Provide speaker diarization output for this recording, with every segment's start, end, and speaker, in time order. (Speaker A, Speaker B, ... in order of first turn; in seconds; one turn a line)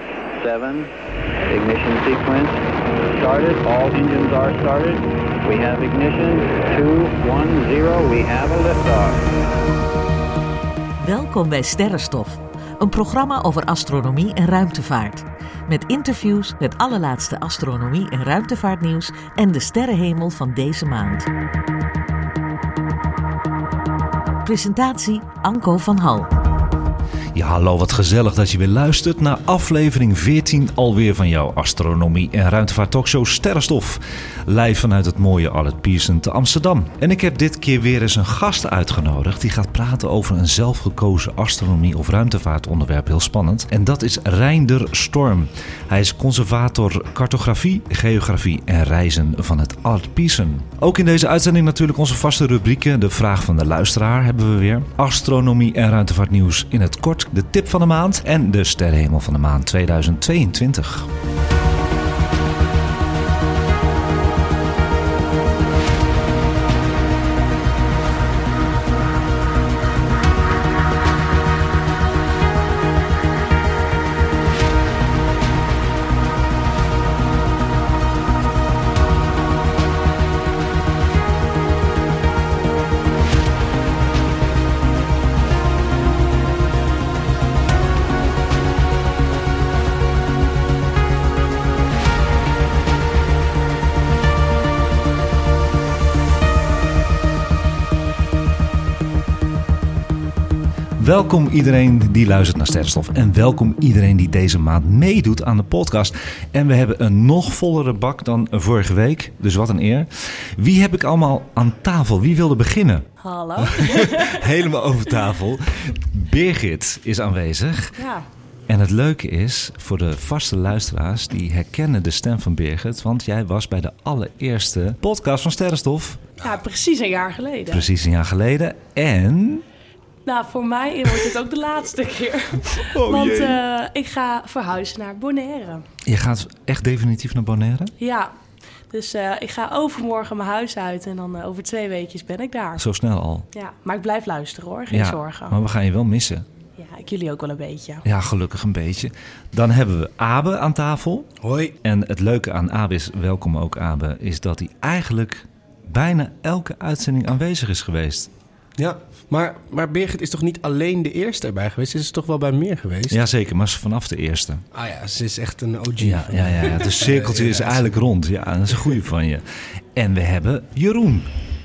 Speaker A: 0.3-9.3
Speaker B: 11.0-21.3
Speaker B: 24.4-26.3
Speaker C: 27.3-61.1
Speaker C: 101.0-113.1
Speaker D: 113.2-114.4
Speaker C: 113.6-118.0
Speaker D: 118.0-118.2
Speaker C: 118.7-126.2
Speaker D: 126.4-127.8
Speaker C: 127.7-129.6
Speaker D: 130.2-135.8
Speaker C: 132.8-133.6
Speaker C: 136.1-137.9
Speaker D: 138.0-138.3
Speaker D: 138.9-142.8
Speaker C: 142.8-143.4
Speaker D: 143.5-145.6
Speaker C: 144.9-146.4
Speaker D: 146.8-148.0
Speaker C: 148.1-151.3
Speaker E: 151.4-151.7
Speaker C: 151.8-158.3
Speaker E: 158.8-163.2
Speaker C: 163.1-164.6
Speaker E: 164.7-168.0
Speaker C: 166.0-171.3